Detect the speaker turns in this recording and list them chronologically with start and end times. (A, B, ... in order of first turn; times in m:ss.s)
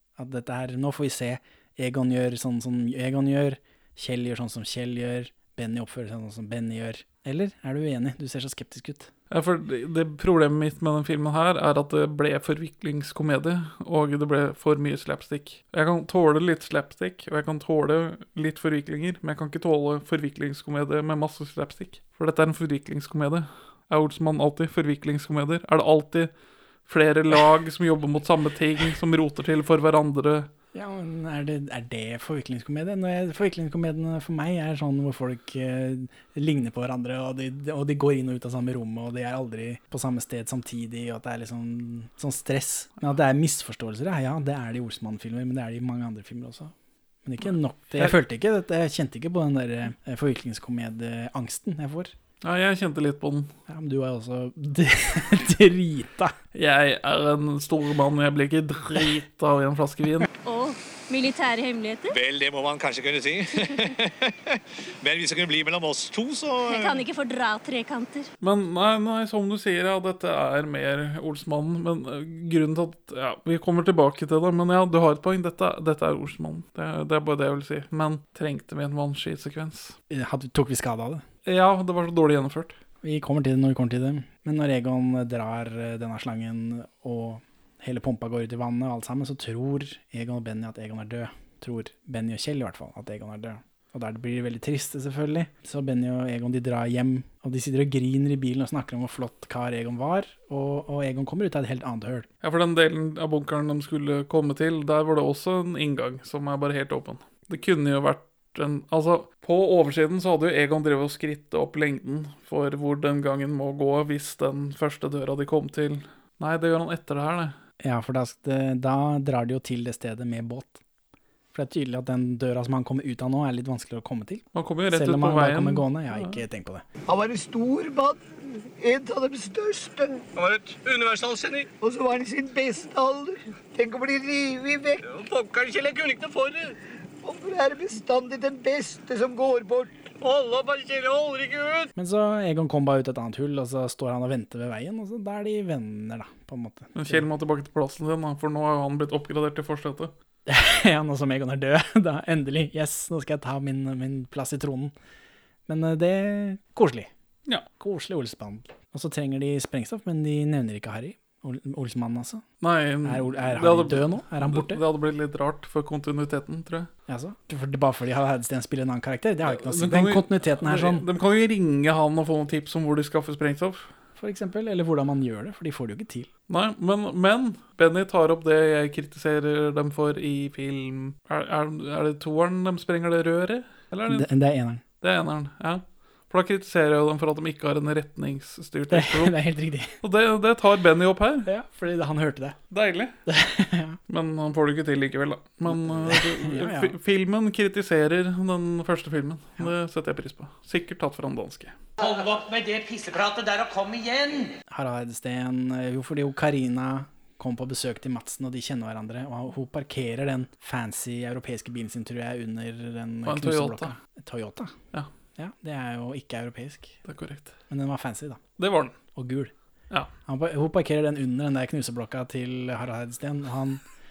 0:00.2-0:09.1 A
0:09.3-0:26.3 B
0:26.9-0:30.5 B
0:30.7-0:46.7 A
0:47.2-0:52.1 A
0:52.4-0:53.5 B
0:53.7-0:56.3 A
0:56.5-1:00.3 B
1:00.4-1:02.2 C
1:02.1-1:03.4 D
1:05.0-1:06.9 D
1:06.6-1:08.3 C
1:08.4-1:20.0 B
1:20.1-1:21.2 A
1:21.4-1:22.8 B
1:23.0-1:42.3 A
1:42.4-1:57.6 B
1:57.8-2:00.8 A
2:01.5-2:06.8 A
2:04.5-2:06.4 B
2:07.1-2:08.2 E
2:08.8-2:21.9 E
2:21.9-2:27.2 A
2:27.0-2:30.1 B
2:30.5-2:34.9 A
2:35.7-2:37.1 A
2:37.8-2:42.4 A
2:42.6-2:46.9 B
2:43.0-2:44.8 A
2:47.1-2:51.0 A
2:49.5-2:53.9 B
2:54.2-2:56.3 A
2:56.5-3:04.3 B
3:04.1-3:04.8 A
3:05.0-3:09.3 B
3:08.9-3:09.9 A
3:10.0-3:11.5 B
3:11.4-3:12.6 A
3:12.7-3:13.1 B
3:13.3-3:14.0 A
3:14.1-3:21.7 B
3:15.7-3:16.9 A
3:22.0-3:24.5 D
3:24.7-3:34.7 A
3:33.2-3:33.9 B
3:35.4-3:37.0 A
3:37.1-3:37.5 B
3:37.7-3:38.4 A
3:38.6-3:39.0 B
3:39.1-3:39.5 A
3:40.3-3:43.8 A